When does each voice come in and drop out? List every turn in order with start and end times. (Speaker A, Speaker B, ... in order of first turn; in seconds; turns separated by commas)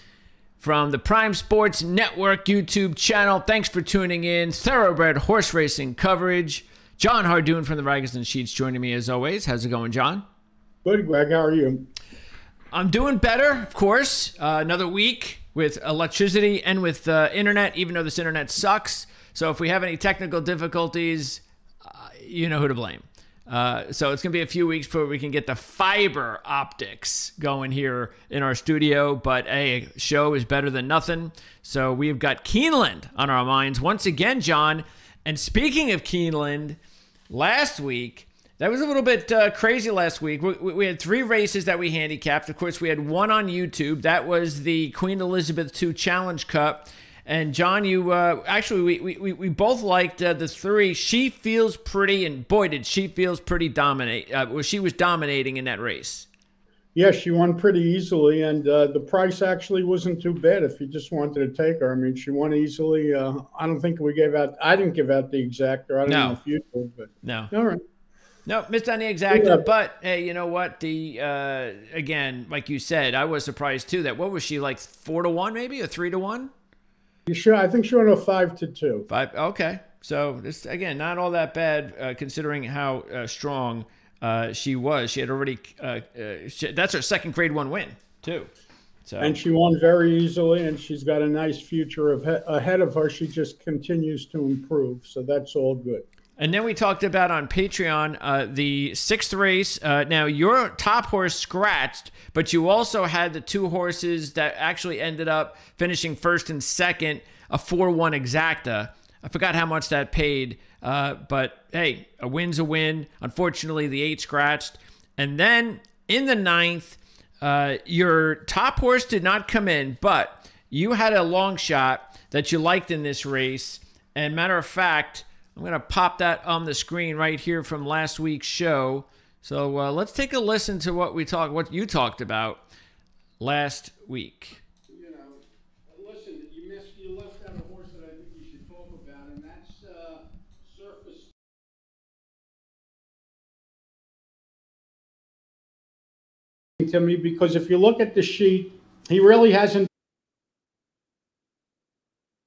Speaker A: 0.6-10.2, Speaker B: 10.8-11.8, Speaker A: 12.7-36.8, Speaker A: 37.3-56.3, Speaker B: 56.9-67.8, Speaker A: 66.1-66.4, Speaker A: 67.2-67.5, Speaker A: 68.5-76.5, Speaker B: 69.3-69.6, Speaker B: 77.3-79.1, Speaker A: 79.1-88.5, Speaker A: 89.0-89.4, Speaker B: 89.2-96.0, Speaker A: 96.4-132.6, Speaker A: 133.4-134.6, Speaker B: 134.9-141.3, Speaker B: 146.8-149.9